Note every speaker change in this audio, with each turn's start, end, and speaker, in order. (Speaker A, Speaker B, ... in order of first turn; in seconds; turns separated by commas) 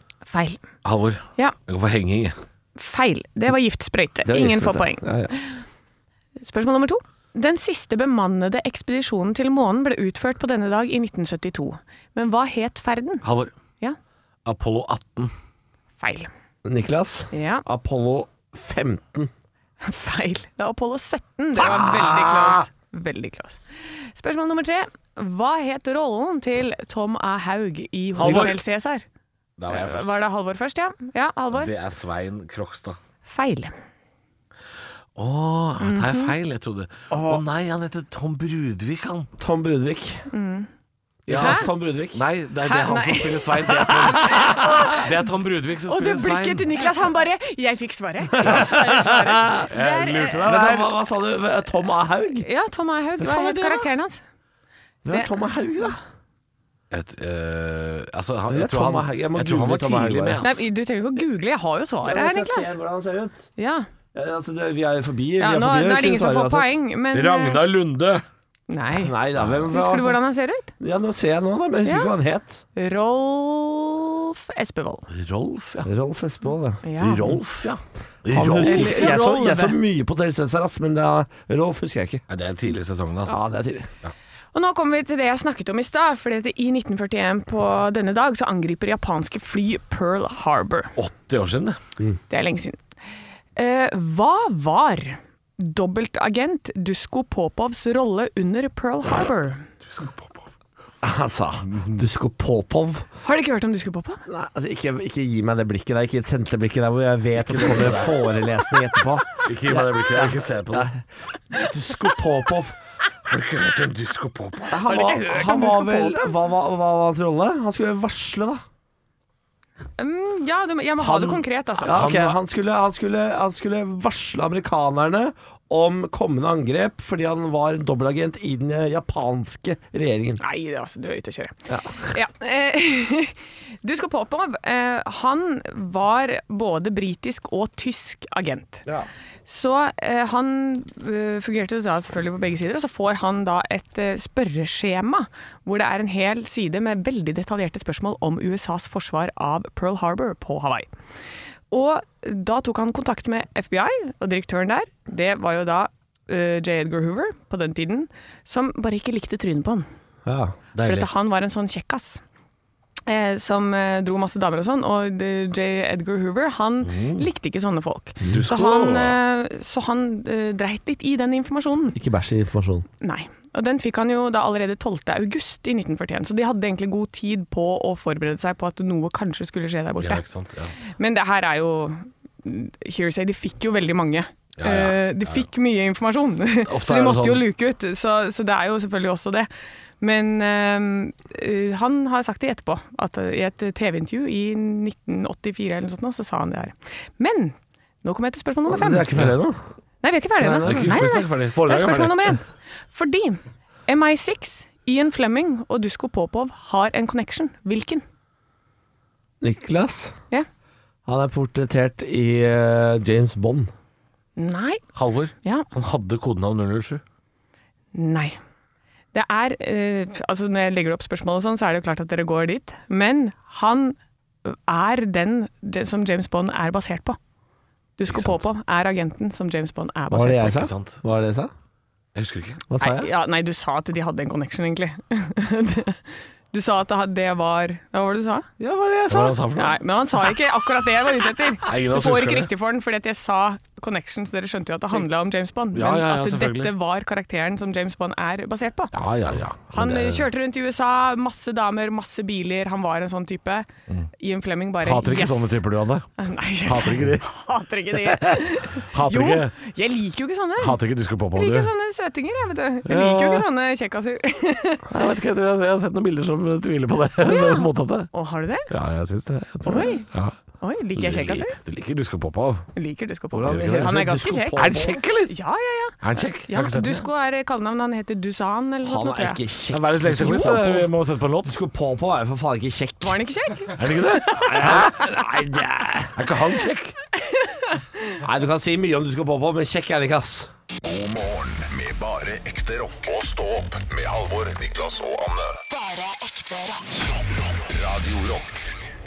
Speaker A: 0.3-0.6, Speaker B: 0.8-2.4, Speaker A: 2.8-5.6, Speaker C: 4.3-5.3, Speaker A: 6.4-13.3, Speaker B: 13.2-13.5, Speaker B: 14.4-15.3, Speaker A: 16.0-16.3, Speaker C: 16.6-19.3, Speaker A: 17.3-17.6, Speaker A: 19.8-29.1, Speaker B: 21.6-22.7, Speaker B: 28.2-28.6, Speaker C: 28.2-28.6, Speaker B: 29.6-30.1, Speaker A: 29.7-31.7, Speaker B: 31.5-33.0, Speaker A: 33.2-33.7, Speaker B: 35.2-39.3, Speaker A: 35.8-36.3, Speaker C: 37.1-37.4, Speaker C: 39.4-40.3, Speaker A: 40.3-40.7, Speaker C: 41.3-42.2, Speaker B: 41.3-46.7, Speaker A: 41.3-41.7, Speaker A: 42.6-45.1, Speaker C: 44.5-44.8, Speaker A: 45.9-50.8, Speaker C: 48.3-49.7, Speaker B: 49.7-50.8, Speaker C: 50.4-52.5, Speaker A: 52.4-54.2, Speaker C: 53.2-53.9, Speaker C: 55.0-56.0, Speaker B: 56.9-60.6, Speaker C: 58.5-60.4, Speaker A: 60.4-62.8, Speaker C: 62.0-63.5, Speaker A: 63.6-63.9, Speaker C: 64.1-66.8, Speaker A: 65.4-67.6, Speaker B: 67.1-68.2, Speaker A: 68.7-69.2, Speaker C: 68.9-70.2, Speaker B: 69.4-69.7, Speaker A: 69.7-70.7, Speaker C: 70.8-72.6, Speaker A: 71.8-72.1, Speaker A: 72.8-75.1, Speaker B: 75.1-75.9, Speaker C: 75.8-77.4, Speaker A: 76.8-77.4, Speaker B: 77.0-79.2, Speaker C: 78.3-82.2, Speaker A: 78.6-79.8, Speaker B: 82.3-83.4, Speaker C: 83.3-83.9, Speaker A: 84.5-90.9, Speaker B: 91.0-91.8, Speaker A: 92.3-92.8, Speaker A: 93.6-99.7, Speaker B: 99.8-100.5, Speaker C: 101.0-103.1, Speaker B: 101.7-102.0, Speaker A: 103.2-104.2, Speaker C: 104.3-112.8, Speaker B: 107.4-108.2, Speaker B: 109.4-110.9, Speaker B: 113.3-114.9, Speaker C: 114.7-118.6, Speaker A: 114.8-116.3, Speaker A: 120.0-122.0, Speaker C: 121.0-130.4, Speaker B: 121.9-122.4, Speaker A: 130.4-138.8, Speaker C: 131.7-132.1, Speaker A: 139.5-150.9, Speaker A: 151.7-159.9, Speaker C: 160.3-160.6, Speaker B: 160.8-161.1, Speaker A: 160.8-162.2, Speaker A: 163.1-172.0, Speaker B: 166.8-167.2, Speaker C: 168.2-168.5, Speaker B: 168.3-169.2, Speaker C: 171.9-172.9, Speaker A: 173.0-180.2, Speaker B: 180.0-180.8, Speaker A: 181.0-189.5, Speaker B: 184.6-185.5, Speaker B: 186.7-187.4, Speaker A: 190.0-199.1, Speaker C: 198.7-199.6, Speaker A: 200.0-208.0, Speaker C: 200.4-201.0, Speaker B: 200.6-202.3, Speaker C: 209.4-210.2, Speaker C: 211.1-213.7, Speaker A: 214.4-214.8, Speaker B: 214.9-217.0, Speaker A: 217.9-218.4, Speaker A: 219.1-227.2, Speaker A: 228.0-230.7, Speaker B: 228.1-228.4, Speaker C: 230.1-231.5, Speaker B: 230.5-231.0, Speaker B: 232.2-232.6, Speaker C: 232.7-233.1, Speaker A: 232.8-238.5, Speaker C: 238.6-239.4, Speaker B: 239.1-239.8, Speaker A: 239.6-248.9, Speaker B: 241.6-242.5, Speaker B: 245.7-246.7, Speaker B: 248.9-250.3, Speaker A: 249.7-253.7, Speaker A: 254.2-255.6, Speaker B: 254.8-256.1, Speaker A: 256.2-260.8, Speaker B: 256.6-257.3, Speaker B: 258.0-259.6, Speaker B: 260.6-261.7, Speaker A: 261.4-264.9, Speaker B: 262.9-263.5, Speaker B: 264.9-268.1, Speaker A: 267.2-268.7, Speaker B: 268.7-270.4, Speaker A: 269.6-270.1, Speaker A: 270.6-271.6, Speaker B: 271.0-272.7, Speaker A: 272.8-274.7, Speaker C: 273.3-275.0, Speaker B: 273.5-274.0, Speaker B: 274.6-275.3, Speaker A: 275.3-279.4, Speaker B: 276.0-277.1, Speaker C: 278.8-280.9, Speaker B: 279.7-281.5, Speaker C: 281.4-283.2, Speaker A: 283.0-284.9, Speaker B: 283.8-284.9, Speaker C: 284.4-286.3, Speaker B: 286.2-286.9, Speaker A: 287.2-288.2, Speaker C: 288.2-290.5, Speaker D: 290.8-295.6, Speaker D: 297.0-298.7